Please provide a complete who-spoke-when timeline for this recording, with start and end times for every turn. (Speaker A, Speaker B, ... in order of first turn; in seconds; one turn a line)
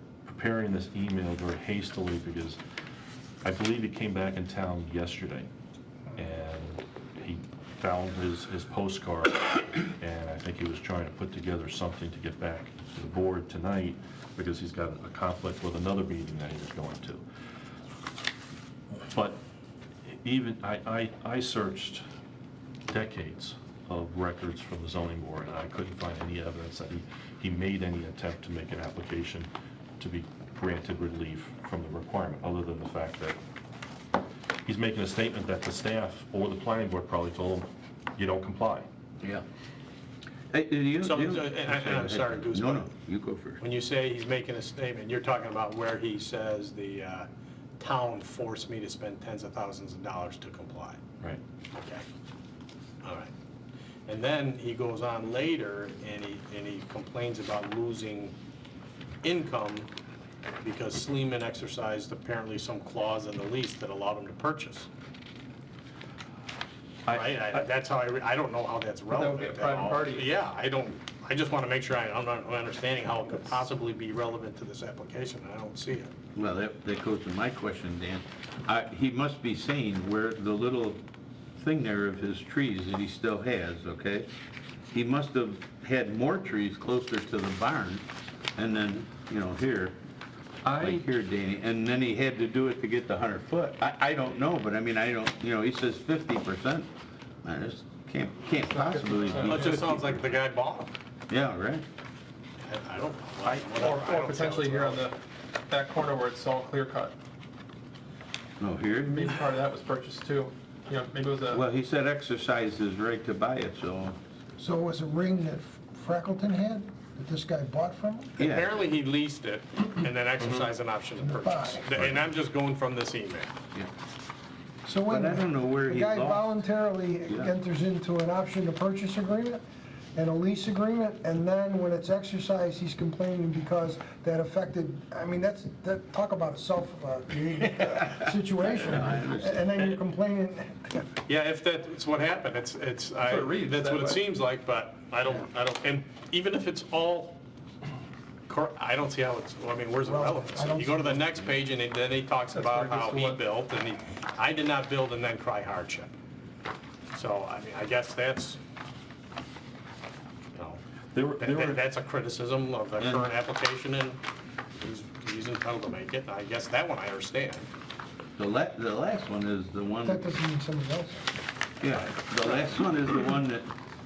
Speaker A: 0.2-2.6
Speaker A: 3.4-5.5
Speaker A: 6.1-17.2
Speaker A: 19.1-19.4
Speaker A: 20.1-22.0
Speaker A: 22.9-29.5
Speaker A: 30.0-33.4
Speaker A: 34.6-38.9
Speaker B: 40.5-43.6
Speaker C: 41.0-42.9
Speaker C: 43.6-47.3
Speaker C: 47.8-51.0
Speaker C: 51.7-52.0
Speaker C: 53.0-53.3
Speaker C: 54.1-58.3
Speaker C: 59.2-59.9
Speaker C: 60.6-64.9
Speaker A: 67.0-67.7
Speaker C: 67.1-76.1
Speaker D: 69.1-70.3
Speaker B: 76.3-81.0
Speaker B: 81.6-84.3
Speaker B: 84.9-88.0
Speaker B: 88.5-90.0
Speaker A: 90.6-91.0
Speaker B: 90.8-96.9
Speaker B: 97.4-100.3
Speaker D: 98.7-99.8
Speaker C: 99.4-100.9
Speaker B: 101.3-101.8
Speaker C: 102.6-105.1
Speaker B: 103.4-103.8
Speaker D: 103.8-105.2
Speaker D: 105.7-107.1
Speaker B: 108.6-109.3
Speaker D: 109.0-111.6
Speaker B: 111.5-114.2
Speaker E: 114.6-118.3
Speaker C: 118.4-123.5
Speaker B: 118.4-118.7
Speaker E: 121.2-121.9
Speaker E: 124.8-129.6
Speaker B: 125.1-126.5
Speaker E: 130.1-141.1
Speaker B: 138.7-139.7
Speaker C: 141.3-147.4
Speaker D: 143.2-144.2
Speaker C: 148.5-156.1
Speaker E: 150.0-151.4
Speaker D: 152.5-153.4
Speaker C: 157.1-158.6
Speaker C: 160.5-160.8
Speaker A: 161.1-161.8
Speaker C: 161.4-164.2
Speaker B: 163.0-163.3
Speaker C: 164.8-167.7
Speaker B: 168.4-170.2
Speaker E: 170.0-171.3
Speaker B: 171.8-173.7
Speaker C: 171.9-172.6